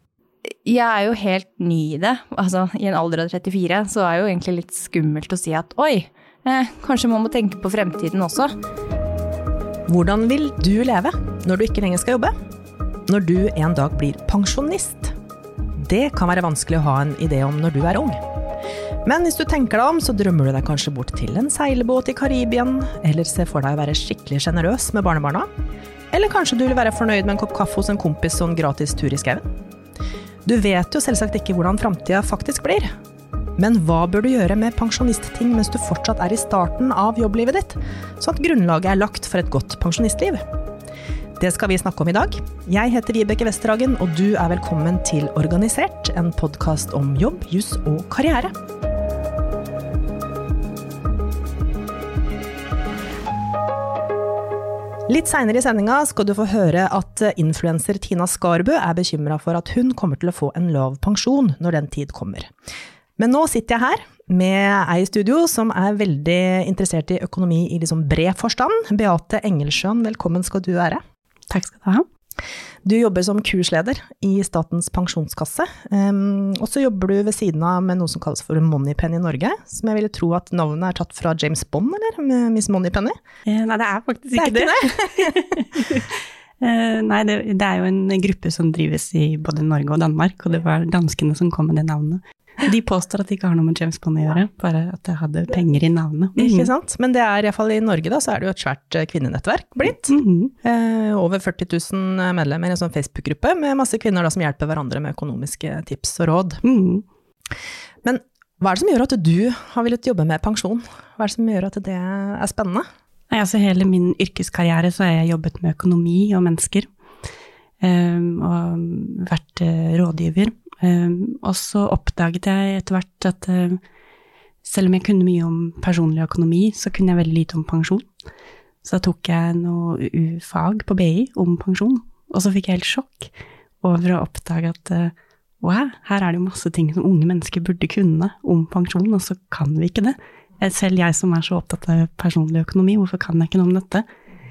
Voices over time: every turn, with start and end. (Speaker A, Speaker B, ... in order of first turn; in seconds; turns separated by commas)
Speaker A: 0.6-8.5, Speaker B: 9.9-12.3, Speaker B: 13.1-15.1, Speaker B: 15.8-18.2, Speaker B: 19.0-25.5, Speaker B: 26.1-29.5, Speaker B: 30.4-32.9, Speaker B: 33.6-40.4, Speaker B: 41.4-48.5, Speaker B: 55.1-62.5, Speaker B: 63.2-71.0, Speaker C: 71.5-72.0, Speaker B: 72.8-83.2, Speaker C: 83.5-96.7, Speaker B: 84.3-85.4, Speaker B: 96.4-106.6, Speaker C: 100.1-100.5, Speaker C: 106.6-107.0, Speaker B: 108.0-112.9, Speaker C: 113.3-116.9, Speaker C: 117.8-123.8, Speaker C: 124.6-128.1, Speaker C: 128.8-144.0